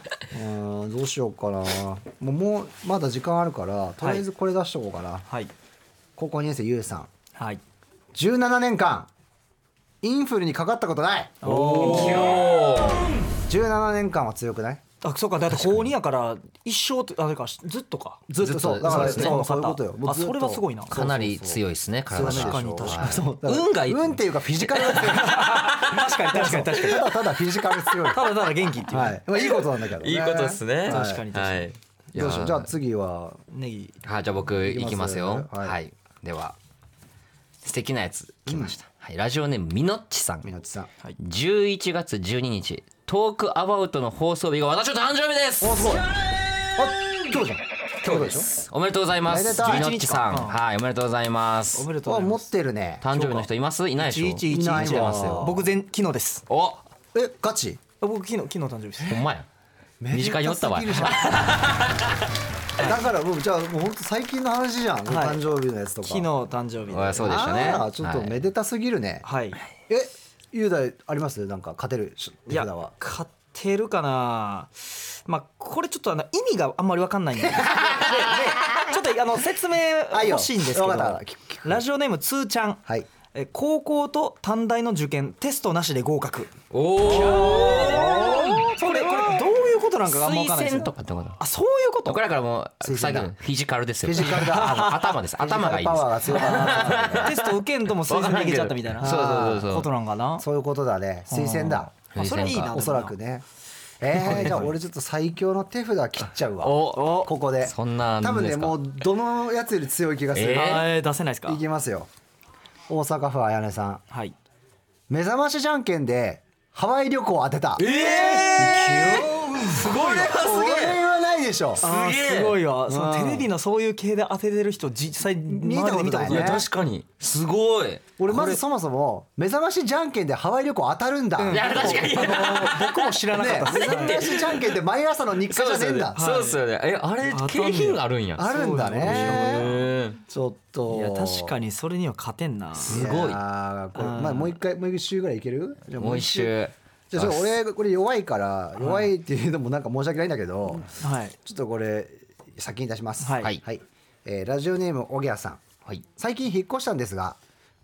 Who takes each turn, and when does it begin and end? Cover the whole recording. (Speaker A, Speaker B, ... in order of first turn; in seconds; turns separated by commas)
Speaker A: 0.3-5.3, Speaker A: 6.2-7.1, Speaker B: 7.3-7.6, Speaker A: 8.1-9.1, Speaker A: 10.0-12.4, Speaker B: 11.4-12.4, Speaker C: 11.7-13.1, Speaker A: 13.5-14.8, Speaker B: 15.0-18.3, Speaker A: 15.5-15.9, Speaker A: 18.3-31.3, Speaker C: 18.4-19.4, Speaker B: 18.8-20.9, Speaker C: 20.9-24.2, Speaker B: 22.1-23.2, Speaker B: 24.9-27.3, Speaker B: 28.0-29.2, Speaker C: 29.4-32.7, Speaker B: 30.9-31.7, Speaker A: 32.1-33.4, Speaker B: 33.5-34.0, Speaker C: 34.0-36.6, Speaker A: 34.6-35.8, Speaker C: 37.6-40.5, Speaker A: 38.5-38.8, Speaker A: 40.4-40.9, Speaker C: 41.2-46.0, Speaker A: 45.6-46.1, Speaker A: 46.8-48.6, Speaker C: 48.0-51.9, Speaker A: 49.3-49.9, Speaker B: 49.6-50.6, Speaker B: 51.8-52.5, Speaker A: 52.0-53.0, Speaker C: 53.0-55.6, Speaker B: 53.1-56.5, Speaker A: 54.5-55.7, Speaker C: 56.5-56.8, Speaker A: 57.1-57.8, Speaker B: 58.0-59.2, Speaker C: 59.0-59.5, Speaker A: 60.0-61.7, Speaker C: 60.1-62.1, Speaker A: 62.8-66.3, Speaker B: 65.1-65.4, Speaker B: 66.0-67.8, Speaker C: 66.9-68.4, Speaker A: 67.2-69.3, Speaker B: 69.2-69.6, Speaker A: 69.9-72.9, Speaker B: 72.5-82.8, Speaker A: 80.1-81.8, Speaker B: 83.3-86.5, Speaker C: 86.7-89.5, Speaker B: 87.0-92.2, Speaker A: 87.1-89.3, Speaker C: 90.0-91.4, Speaker C: 92.1-99.9, Speaker A: 92.8-93.3, Speaker A: 94.0-97.4, Speaker B: 94.2-94.8, Speaker B: 96.3-100.5, Speaker A: 99.0-99.7, Speaker A: 100.4-103.5, Speaker B: 101.3-103.1, Speaker C: 102.1-102.8, Speaker A: 104.0-110.9, Speaker B: 104.1-104.7, Speaker C: 106.6-108.9, Speaker B: 107.0-107.3, Speaker C: 110.3-110.9, Speaker B: 110.5-111.6, Speaker A: 111.5-112.1, Speaker A: 112.9-114.0, Speaker B: 114.1-114.4, Speaker A: 115.1-119.3, Speaker C: 117.8-121.0, Speaker B: 117.8-120.4, Speaker A: 120.3-121.8, Speaker C: 121.8-122.6, Speaker B: 121.8-126.6, Speaker A: 122.9-123.5, Speaker A: 125.5-126.7, Speaker C: 126.3-128.1, Speaker A: 128.2-132.4, Speaker B: 128.3-128.6, Speaker B: 131.4-134.3, Speaker C: 131.5-134.8, Speaker A: 133.3-136.2, Speaker C: 135.5-140.2, Speaker B: 136.2-136.6, Speaker B: 137.2-139.9, Speaker A: 138.4-139.7, Speaker A: 140.3-141.6, Speaker B: 140.9-143.1, Speaker C: 142.8-143.4, Speaker A: 142.9-146.5, Speaker B: 144.0-144.5, Speaker C: 146.0-147.5, Speaker A: 147.1-150.9, Speaker B: 148.8-149.1, Speaker B: 150.9-151.3, Speaker A: 151.4-155.6, Speaker B: 153.2-153.5, Speaker A: 156.1-157.4